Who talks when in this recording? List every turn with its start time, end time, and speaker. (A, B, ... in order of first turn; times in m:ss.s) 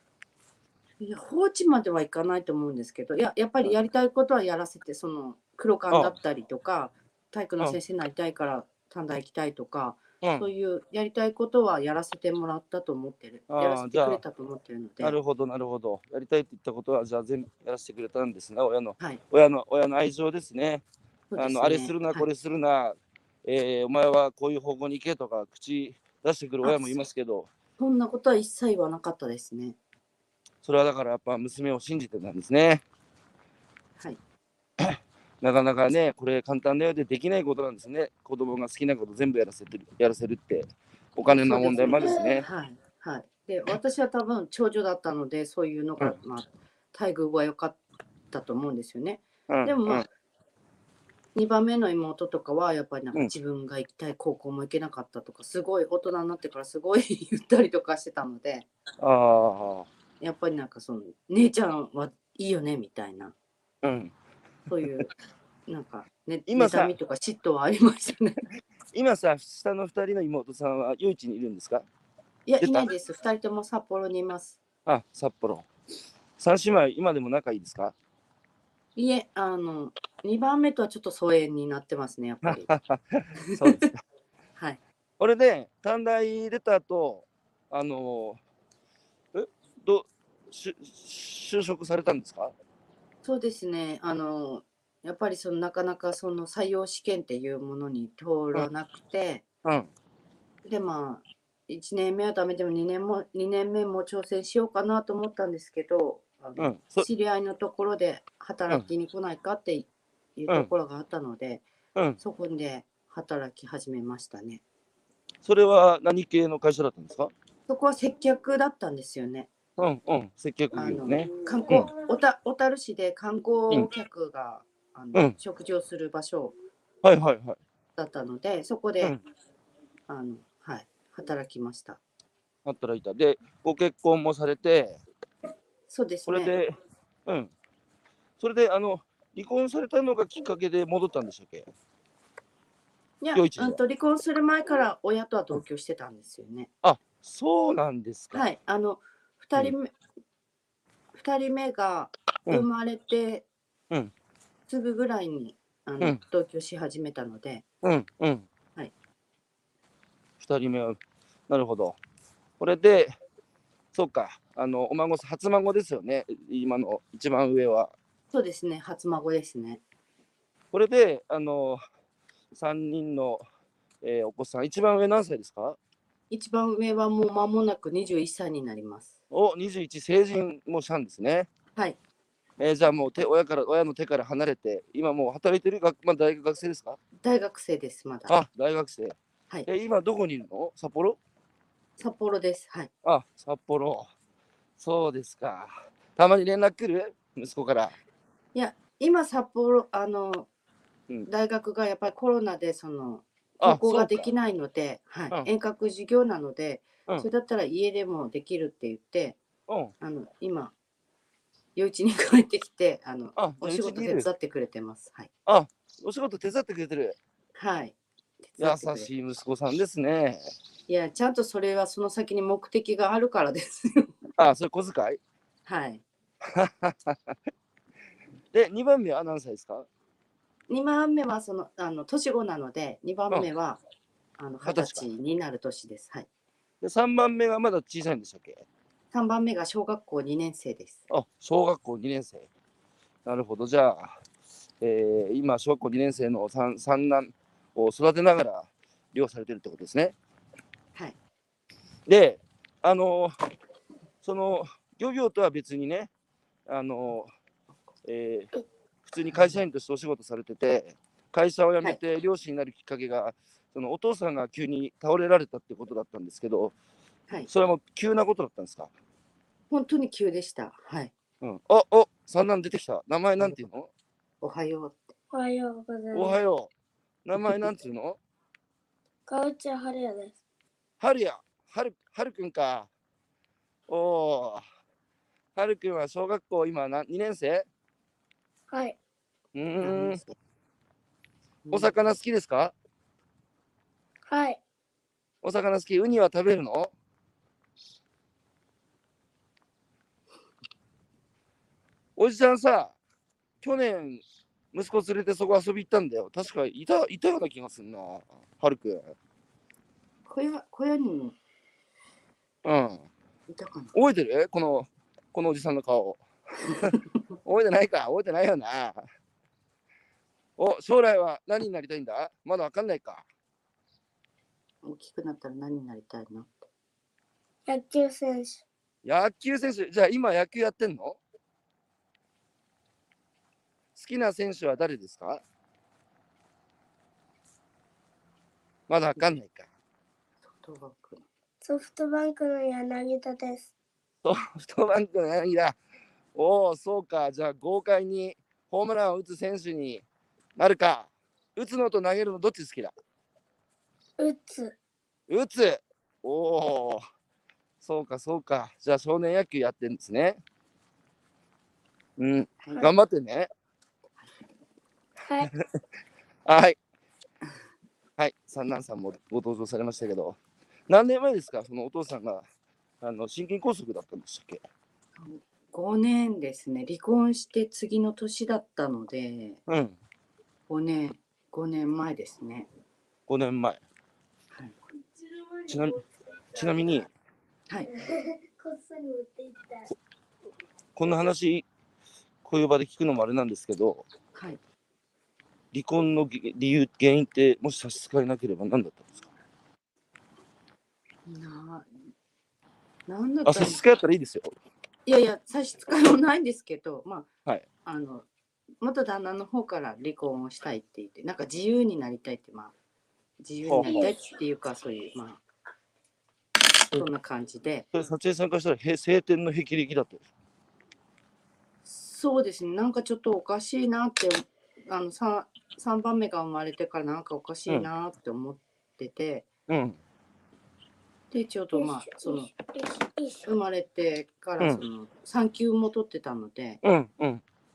0:01.0-0:15.2 A
0:05.9-0:06.2 B
0:10.2-0:10.5 B
0:13.5-0:14.2 B
0:15.0-0:20.8 B
0:21.3-0:22.2 A
0:21.4-0:27.5 B
0:26.6-0:27.0 A
0:27.8-0:29.8 A
0:30.6-0:32.8 B
0:34.8-0:42.5 B
0:41.2-0:47.8 A
0:48.3-0:50.1 A
0:49.5-0:50.1 B
0:51.3-0:58.6 A
0:59.0-0:59.9 B
1:00.2-1:03.3 A
1:03.8-1:04.1 B
1:04.7-1:05.1 A
1:05.7-1:08.4 A
1:06.5-1:06.9 B
1:08.9-1:11.9 B
1:12.4-1:14.6 A
1:12.6-1:12.9 B
1:14.9-1:15.7 B
1:16.4-1:17.9 B
1:19.0-1:22.7 A
1:22.4-1:24.0 B
1:23.4-1:23.8 A
1:25.2-1:28.4 B
1:29.3-1:32.5 B
1:33.2-1:39.4 A
1:39.6-1:39.9 B
1:40.6-1:51.6 A
1:46.6-1:47.1 B
1:52.2-1:54.6 A
1:55.4-1:57.3 B
1:57.7-1:59.5 A
1:59.8-2:01.9 B
2:00.7-2:06.5 A
2:07.0-2:07.6 B
2:08.0-2:09.1 A
2:10.1-2:12.0 A
2:12.6-2:15.0 B
2:15.9-2:16.5 A
2:16.3-2:16.7 B
2:17.2-2:17.5 B
2:18.4-2:21.7 B
2:23.2-2:26.7 A
2:23.3-2:23.8 B
2:26.8-2:28.4 B
2:28.3-2:29.9 A
2:31.1-2:33.4 A
2:34.7-2:37.6 A
2:37.8-2:38.5 B
2:40.4-2:42.0 B
2:42.6-2:43.1 B
2:43.9-2:47.9 B
2:48.3-2:49.8 A
2:50.7-2:51.8 B
2:52.5-2:53.4 B
2:54.0-2:55.8 B
2:56.3-2:59.1 A
2:59.3-3:01.5 B
3:02.6-3:07.0 B
3:07.2-3:08.3 A
3:08.3-3:11.2 B
3:12.0-3:12.9 A
3:13.0-3:14.1 B
3:14.8-3:17.9 B
3:18.5-3:20.5 A
3:21.3-3:29.4 A
3:23.6-3:24.3 B
3:29.7-3:29.9 B
3:30.0-3:30.7 A
3:31.8-3:35.3 A
3:33.4-3:34.3 B
3:35.4-3:37.2 B
3:37.5-3:39.1 A
3:38.6-3:40.5 B
3:40.9-3:44.1 A
3:44.4-3:45.2 B
3:45.6-3:46.0 A
3:46.4-3:47.4 B
3:48.5-3:49.9 B
3:50.7-3:53.8 A
3:54.4-3:56.3 A
3:54.6-3:55.0 B
3:56.8-3:58.6 B
3:59.1-4:01.0 A
4:01.1-4:02.5 B
4:03.2-4:04.2 B
4:04.8-4:10.2 B
4:12.1-4:13.4 B
4:14.2-4:16.1 B
4:16.7-4:17.3 B
4:18.0-4:18.5 B
4:19.0-4:26.7 B
4:27.5-4:28.9 B
4:29.7-4:31.1 A
4:31.4-4:33.9 B
4:34.4-4:35.1 A
4:35.3-4:36.3 C
4:36.1-4:36.7 B
4:37.2-4:38.2 B
4:39.3-4:40.4 C
4:41.0-4:42.9 B
4:43.9-4:44.6 B
4:45.6-4:47.6 B
4:48.7-4:49.0 C
4:49.5-4:50.2 B
4:49.8-4:50.3 A
4:51.6-4:51.9 A
4:51.7-4:52.7 B
4:54.3-4:54.6 C
4:55.4-4:56.9 B
5:02.2-5:02.9 B
5:03.6-5:09.1 B
5:10.3-5:11.4 A
5:12.6-5:13.1 B
5:13.5-5:13.9 A
5:13.9-5:19.0 B
5:20.6-5:23.2 B
5:24.8-5:26.7 A
5:27.7-5:28.6 C
5:29.0-5:31.2 B
5:34.0-5:35.4 B
5:38.9-5:39.7 B
5:40.4-5:41.2 A
5:41.6-5:43.7 C
5:44.2-5:45.8 B
5:46.3-5:50.0 B
5:50.6-5:52.9 B
5:54.2-5:54.7 C
5:55.3-5:57.0 B
5:57.8-6:00.4 B
6:02.2-6:03.5 B
6:05.2-6:05.5 C
6:06.4-6:06.8 B
6:08.2-6:12.4 B
6:13.0-6:14.6 B
6:15.2-6:19.6 A
6:19.7-6:20.0 B
6:20.7-6:22.7 A
6:23.3-6:23.8 B
6:24.9-6:27.0 C
6:25.7-6:26.0 B
6:26.6-6:27.1 B
6:27.9-6:29.9 C
6:31.0-6:31.6 B
6:32.4-6:34.0 B
6:34.3-6:34.6 A
6:35.7-6:39.2 B
6:41.2-6:41.9 A
6:43.1-6:43.8 A
6:43.4-6:44.5 B
6:45.0-6:47.3 A
6:47.8-6:48.3 A
6:48.8-6:52.7 A
6:53.4-6:55.4 A
6:53.6-6:54.0 B
6:53.8-6:54.1 C
6:56.9-6:57.9 A
6:57.9-7:00.2 B
7:01.9-7:09.4 A
7:09.7-7:10.0 B
7:11.3-7:12.5 A
7:11.7-7:13.5 C
7:13.4-7:16.8 A
7:16.8-7:17.4 B